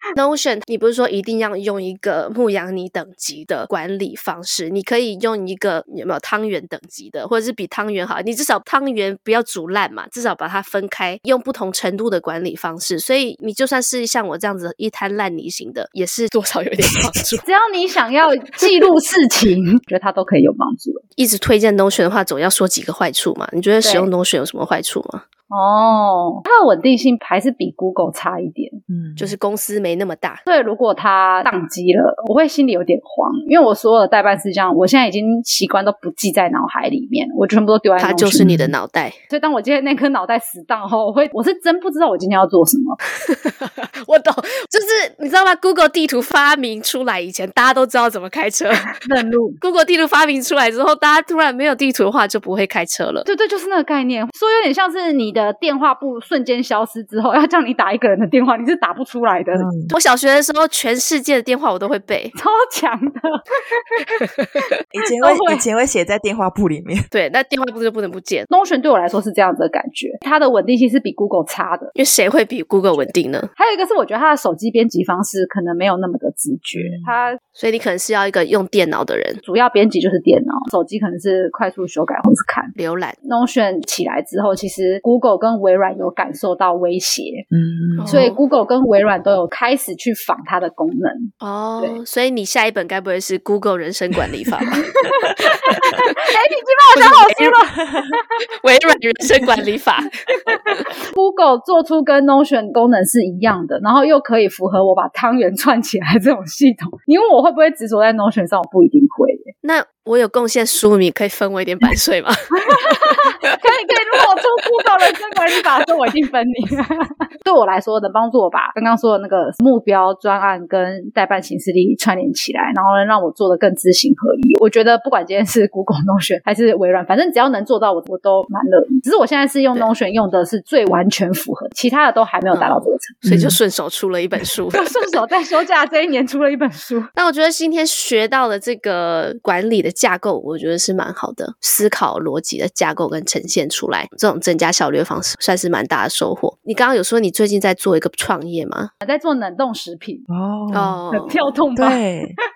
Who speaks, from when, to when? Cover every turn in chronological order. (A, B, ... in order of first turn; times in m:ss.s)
0:00.1-0:17.4 A
0:17.4-0:21.0 B
0:21.2-0:25.2 A
0:23.8-0:24.1 B
0:25.5-0:28.8 B
0:28.9-0:29.3 C
0:29.2-0:30.4 A
0:30.5-0:38.5 B
0:38.0-0:39.2 A
0:38.4-0:38.7 C
0:39.3-0:43.0 B
0:43.2-0:49.0 A
0:49.0-0:49.6 B
0:49.6-0:53.3 A
0:53.3-0:59.7 B
0:59.5-0:59.9 C
0:59.9-1:02.3 A
1:02.3-1:04.0 B
1:04.9-1:07.1 C
1:05.2-1:05.6 B
1:07.1-1:08.5 A
1:08.5-1:11.9 B
1:11.9-1:13.5 A
1:13.6-1:17.4 B
1:16.8-1:17.1 C
1:17.6-1:19.4 A
1:19.4-1:22.7 B
1:22.8-1:23.2 A
1:23.2-1:27.4 B
1:27.5-1:28.3 C
1:28.0-1:28.4 A
1:28.1-1:32.0 B
1:31.4-1:34.8 A
1:34.7-1:38.4 B
1:36.9-1:37.6 A
1:38.6-1:40.5 A
1:40.4-1:49.5 B
1:49.6-1:53.5 A
1:52.5-2:13.2 B
2:12.5-2:15.1 A
2:13.2-2:13.6 C
2:14.7-2:17.1 B
2:17.2-2:28.9 A
2:29.0-2:30.2 B
2:30.3-2:31.0 C
2:30.7-2:31.5 A
2:31.1-2:32.0 B
2:31.7-2:32.4 C